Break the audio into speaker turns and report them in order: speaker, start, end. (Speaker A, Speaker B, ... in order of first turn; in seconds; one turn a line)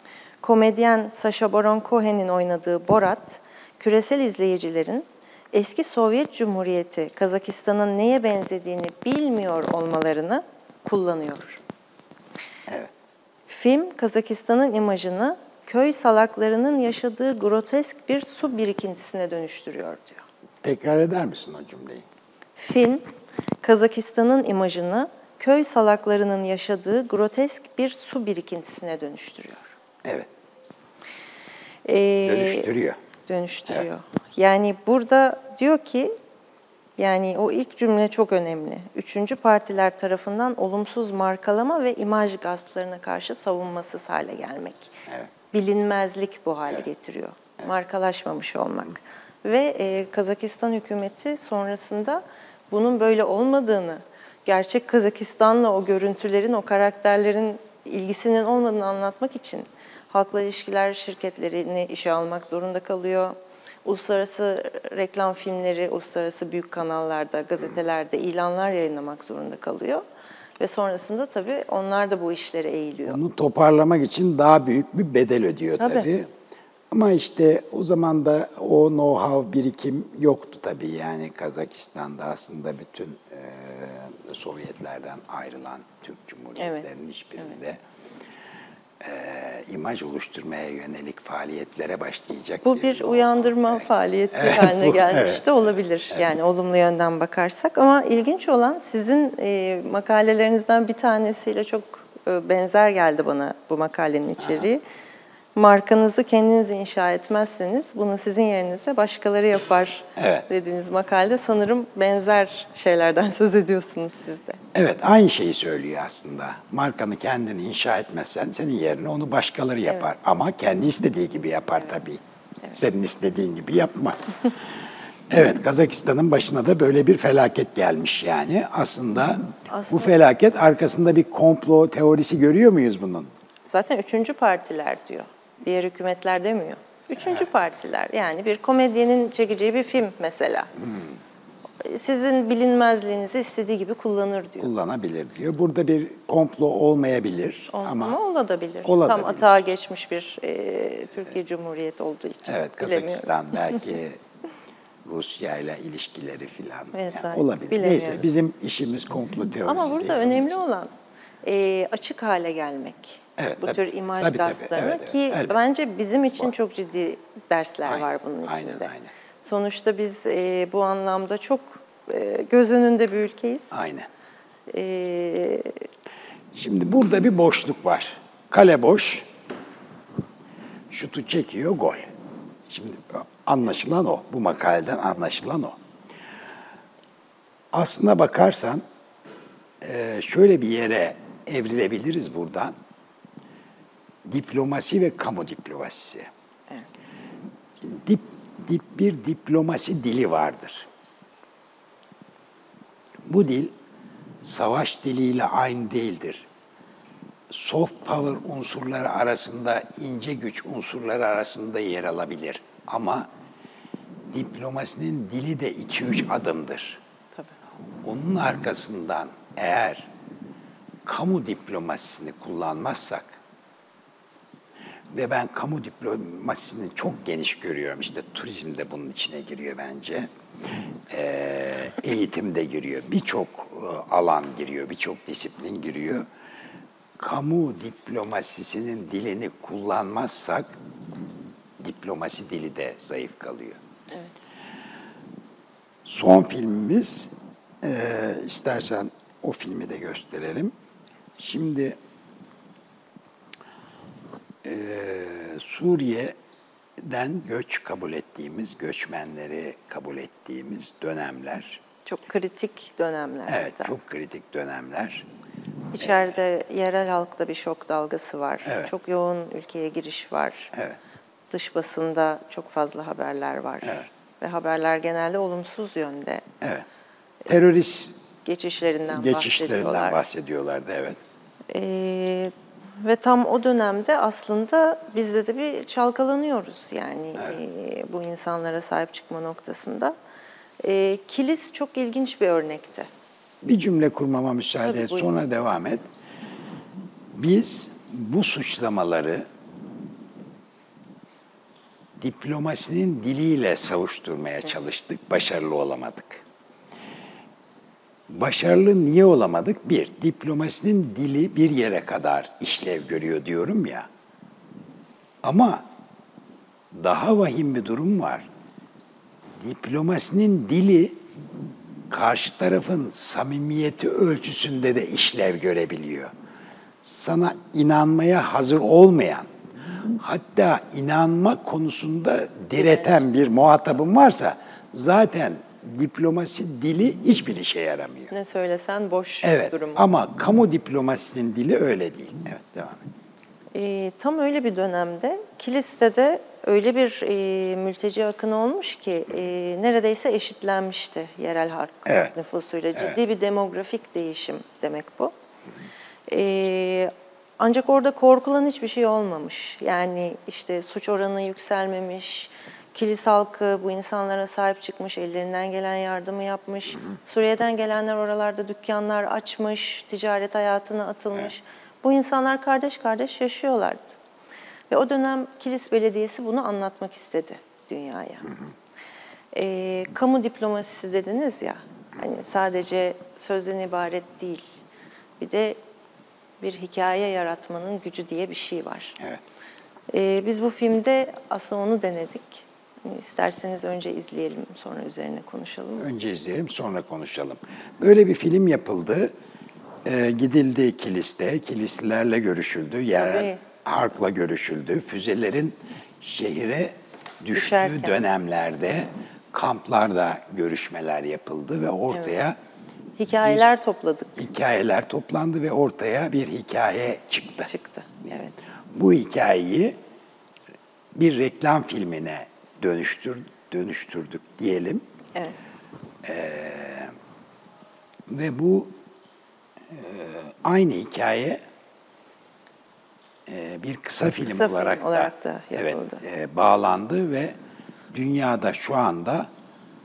Speaker A: 0.4-11.6
Speaker A: 13.5-20.2
Speaker B: 20.6-22.0
Speaker A: 22.6-23.1
Speaker A: 23.6-29.7
Speaker B: 30.0-30.3
Speaker A: 31.8-32.7
Speaker B: 32.2-33.0
Speaker A: 33.3-36.1
Speaker A: 37.0-45.0
Speaker A: 45.5-70.0
Speaker A: 70.6-73.2
Speaker B: 73.0-76.3
Speaker A: 75.8-76.1
Speaker B: 76.9-87.8
Speaker A: 86.6-86.9
Speaker B: 89.0-95.5
Speaker A: 92.6-104.8
Speaker B: 104.4-104.7
Speaker A: 105.5-114.6
Speaker B: 110.2-110.5
Speaker B: 114.7-124.5
Speaker B: 125.3-133.3
Speaker A: 129.7-130.1
Speaker A: 133.7-140.7
Speaker B: 140.8-141.1
Speaker A: 141.8-144.7
Speaker B: 144.6-148.2
Speaker A: 147.7-153.8
Speaker B: 148.8-149.5
Speaker B: 152.4-154.2
Speaker B: 155.0-160.6
Speaker A: 156.9-158.2
Speaker A: 159.6-160.9
Speaker A: 161.4-168.9
Speaker B: 163.4-165.6
Speaker B: 167.8-169.1
Speaker A: 169.4-173.8
Speaker B: 173.7-174.1
Speaker A: 174.7-175.8
Speaker B: 176.5-179.3
Speaker B: 180.9-182.1
Speaker B: 182.7-185.8
Speaker B: 187.7-188.8
Speaker B: 189.8-192.8
Speaker B: 194.2-196.3
Speaker B: 197.8-200.9
Speaker B: 203.2-203.7
Speaker B: 204.4-206.5
Speaker B: 207.5-213.3
Speaker B: 214.3-217.0
Speaker B: 218.0-220.1
Speaker B: 221.0-223.4
Speaker B: 225.1-230.3
Speaker B: 231.1-236.3
Speaker B: 237.2-240.8
Speaker B: 241.8-243.8
Speaker B: 246.0-247.3
Speaker B: 247.8-250.7
Speaker B: 251.4-252.0
Speaker B: 254.6-256.4
Speaker B: 257.0-261.8
Speaker A: 262.1-263.9
Speaker B: 263.5-265.3
Speaker A: 265.9-270.7
Speaker B: 266.0-266.3
Speaker B: 268.6-268.9
Speaker A: 271.5-276.4
Speaker B: 276.6-276.9
Speaker B: 277.5-278.2
Speaker A: 278.4-280.2
Speaker B: 279.1-281.2
Speaker A: 281.7-290.1
Speaker A: 290.8-293.1
Speaker B: 293.6-296.1
Speaker A: 294.8-295.4
Speaker B: 297.3-299.5
Speaker B: 302.2-306.4
Speaker B: 308.3-314.1
Speaker B: 315.4-315.9
Speaker B: 316.9-318.5
Speaker B: 319.6-321.2
Speaker B: 322.1-326.3
Speaker B: 327.0-329.5
Speaker B: 330.1-338.3
Speaker A: 332.7-333.2
Speaker A: 338.3-340.0
Speaker B: 339.4-343.0
Speaker A: 343.7-355.3
Speaker B: 352.1-352.3
Speaker A: 356.3-374.2
Speaker A: 374.9-378.5
Speaker A: 379.5-384.8
Speaker A: 385.4-385.8
Speaker A: 386.6-389.2
Speaker A: 390.1-396.1
Speaker B: 396.0-399.3
Speaker B: 400.0-412.6
Speaker A: 403.1-403.6
Speaker A: 407.5-408.2
Speaker A: 413.2-414.4
Speaker B: 414.3-417.7
Speaker A: 417.7-418.5
Speaker B: 418.9-420.0
Speaker B: 421.1-425.0
Speaker B: 426.2-427.1
Speaker B: 428.3-428.9
Speaker B: 429.9-431.6
Speaker B: 433.5-437.5
Speaker A: 434.4-436.2
Speaker B: 438.1-439.5